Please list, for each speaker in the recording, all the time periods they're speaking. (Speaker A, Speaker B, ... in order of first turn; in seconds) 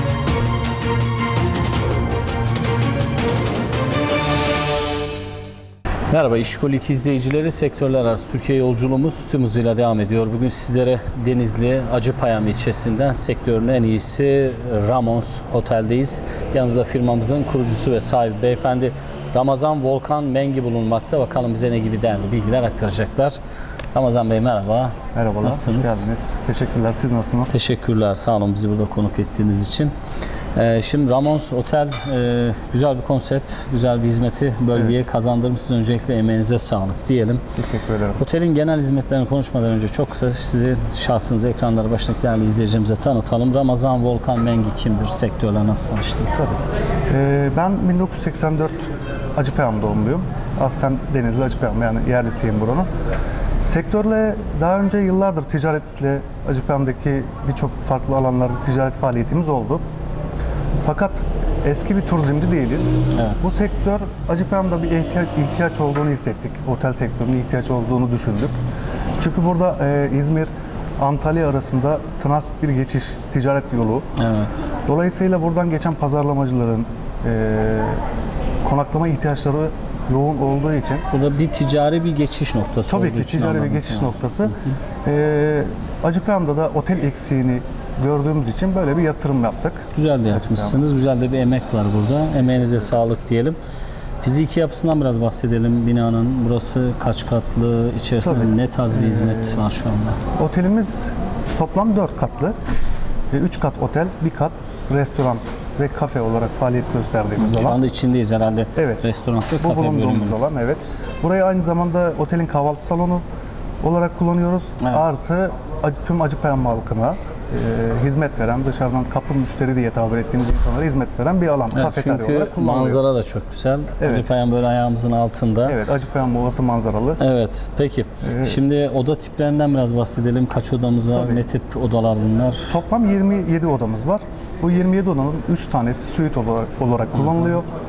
Speaker A: 6.1-23.4, 23.9-26.1, 27.5-29.9, 30.6-37.4, 38.2-46.5, 63.1-63.5, 74.2-74.7, 81.1-84.7, 89.9-93.6, 94.2-100.2, 107.4-110.4, 114.8-115.2, 121.7-125.8, 127.2-132.8, 137.1-137.6
Speaker B: 25.1-27.6, 34.7-35.0, 37.6-38.2, 47.1-52.9, 53.6-59.9, 60.8-68.6, 69.2-74.1, 74.9-78.0, 78.6-81.1, 82.9-90.8, 92.4-93.2, 98.2-99.7, 100.3-102.6, 103.3-107.8, 108.8-113.2, 113.8-123.0, 124.0-124.3, 125.7-127.2, 128.2-128.6, 131.1-131.4, 132.7-137.7